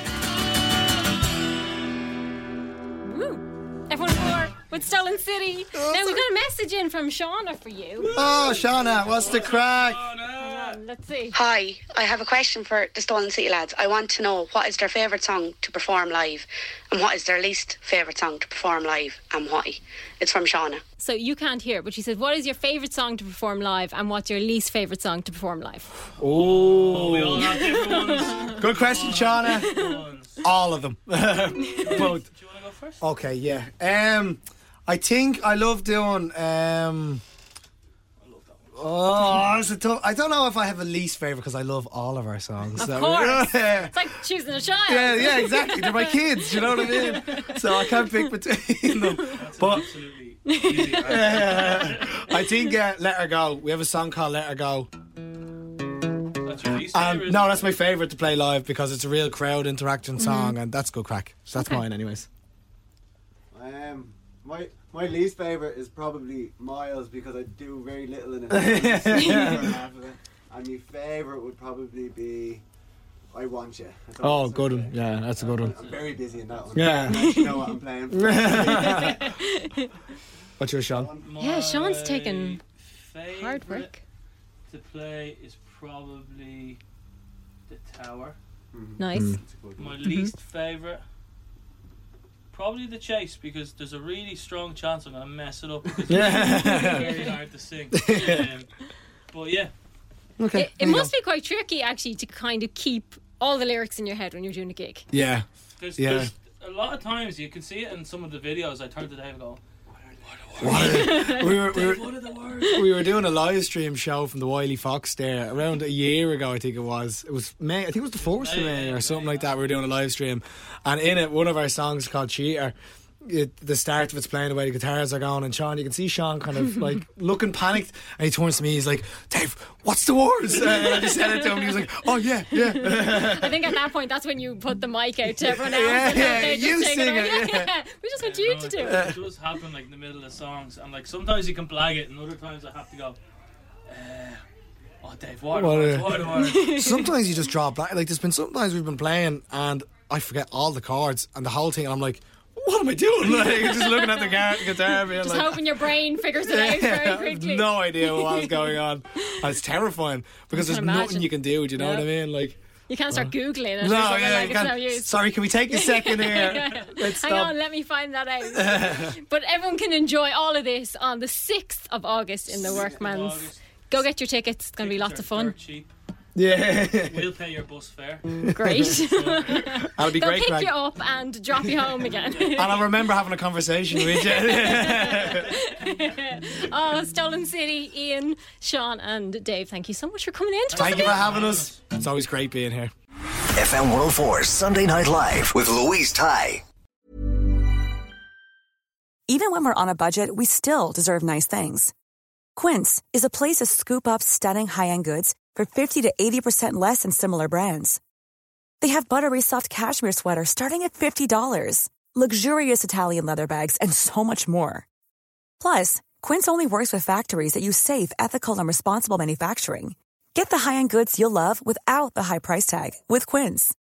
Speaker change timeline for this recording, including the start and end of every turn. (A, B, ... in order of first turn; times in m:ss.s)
0:03.0-0:08.1 A
0:05.7-0:06.2 B
0:08.0-0:10.8 C
0:08.1-0:10.0 B
0:10.4-0:11.4 A
0:11.3-0:20.8 D
0:21.0-0:25.9 A
0:26.2-0:30.4 C
0:26.2-0:27.7 B
0:27.4-0:28.6 A
0:28.5-0:29.8 B
0:29.6-0:29.9 A
0:30.4-0:32.2 B
0:31.8-0:33.0 C
0:31.8-0:32.0 A
0:33.0-0:37.2 B
0:38.2-0:39.5 C
0:38.7-0:44.1 B
0:42.8-0:48.3 A
0:44.8-0:49.9 B
0:49.3-0:52.3 C
0:50.4-0:51.3 A
0:51.0-0:54.9 B
0:56.4-0:57.6 C
0:56.9-1:02.3 B
1:00.2-1:00.6 A
1:01.6-1:01.8 A
1:03.5-1:12.6 E
1:08.5-1:09.7 B
1:13.3-1:19.1 E
1:14.2-1:15.8 B
1:15.4-1:16.8 C
1:16.7-1:17.4 B
1:17.1-1:17.8 A
1:18.1-1:19.3 B
1:18.5-1:19.9 A
1:20.6-1:21.1 B
1:20.9-1:21.3 E
1:21.2-1:23.9 C
1:21.4-1:22.6 A
1:23.3-1:24.0 A
1:24.7-1:26.8 C
1:27.7-1:28.4 C
1:28.7-1:30.0 E
1:29.0-1:29.4 A
1:29.1-1:29.4 B
1:29.8-1:31.0 C
1:30.0-1:30.3 A
1:32.5-1:38.7 C
1:36.1-1:37.2 B
1:36.3-1:37.2 A
1:37.9-1:38.5 B
1:39.3-1:39.7 C
1:40.4-1:41.1 B
1:40.5-1:45.0 A
1:45.1-1:45.4 B
1:45.8-1:49.6 C
1:46.0-1:46.3 B
1:50.2-1:52.8 C
1:50.6-1:52.1 B
1:50.7-1:51.7 A
1:52.6-2:13.8 B
1:58.2-1:59.6 C
2:12.5-2:19.1 A
2:15.3-2:17.7 B
2:18.2-2:23.2 C
2:18.8-2:19.2 B
2:23.9-2:24.4 C
2:25.0-2:26.8 C
2:25.5-2:35.8 B
2:26.4-2:27.1 A
2:33.3-2:39.5 A
2:36.4-2:42.6 B
2:40.5-2:42.1 A
2:42.9-2:55.5 A
2:43.1-2:47.6 B
2:48.5-2:49.1 B
2:52.5-2:54.0 C
2:54.8-2:55.9 C
2:56.4-2:57.3 B
2:57.0-2:59.7 C
2:58.4-2:59.0 B
2:58.5-3:02.9 A
2:59.5-3:00.7 B
3:02.2-3:02.7 C
3:02.5-3:05.6 B
3:03.9-3:11.2 A
3:10.7-3:11.8 C
3:10.7-3:12.9 B
3:13.5-3:16.6 F
3:19.3-3:21.9 G
3:22.6-3:28.0 G
3:28.8-3:34.8 G
3:35.6-3:43.7 G